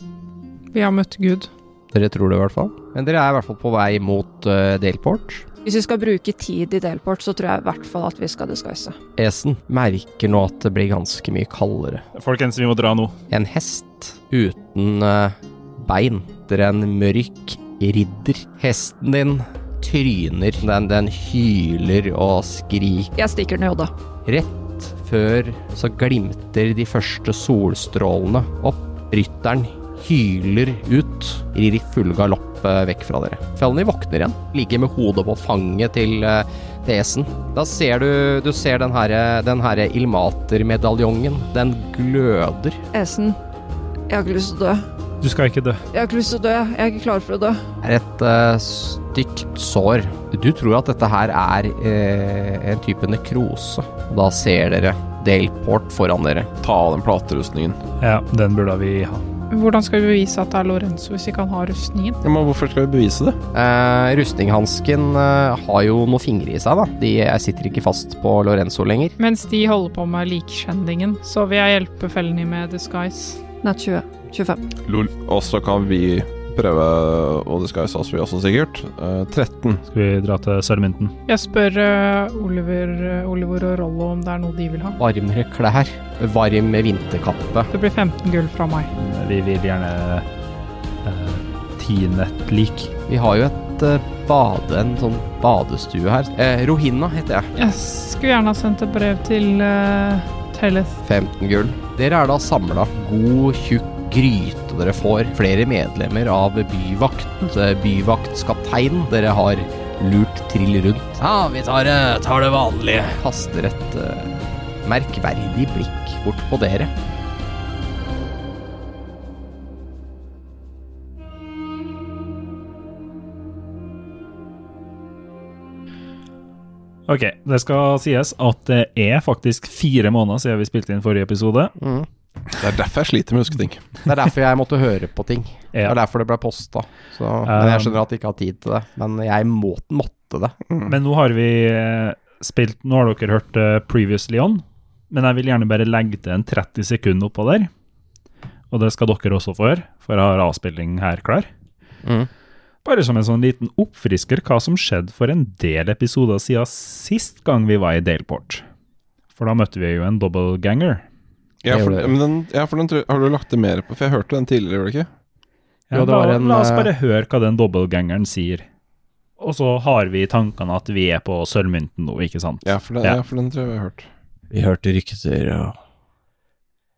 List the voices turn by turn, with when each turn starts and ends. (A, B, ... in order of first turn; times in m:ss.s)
0:00.7-0:01.5 A
0:01.9-0:05.5 B
0:05.6-0:09.0 C
0:09.2-0:12.0 B
0:12.2-0:13.2 D
0:13.3-0:23.1 B
0:23.2-0:23.9 C
0:24.2-0:42.8 B
0:42.9-0:43.4 C
0:44.1-0:44.9 C
0:45.2-0:45.8 D
0:45.9-0:47.6 C
0:47.8-0:56.5 B
0:56.6-0:57.8 E
0:58.0-0:59.2 D
0:59.5-1:02.2 A
1:02.2-1:03.4 E
1:03.5-1:09.2 B
1:09.2-1:13.4 A
1:13.6-1:14.6 C
1:14.9-1:19.8 E
1:19.9-1:21.2 D
1:21.3-1:25.0 A
1:25.0-1:27.7 B
1:27.7-1:28.9 A
1:28.9-1:30.3 D
1:31.0-1:32.9 D
1:33.1-1:37.5 B
1:37.6-1:41.0 A
1:41.0-1:56.9 B
2:07.1-2:11.7 D
2:11.8-2:12.1 B
2:12.6-2:13.8 E
2:14.1-2:20.6 B
2:17.4-2:18.0 D
2:20.9-2:27.7 D
2:28.7-2:31.5 D
2:32.0-2:32.3 B
2:32.8-2:38.6 D
2:39.4-2:41.0 D
2:41.6-2:45.1 E
2:41.7-2:42.1 B
2:45.9-2:48.6 D
2:45.9-2:46.9 B
2:49.4-2:53.2 D
2:52.6-2:54.1 E
2:54.5-2:55.8 B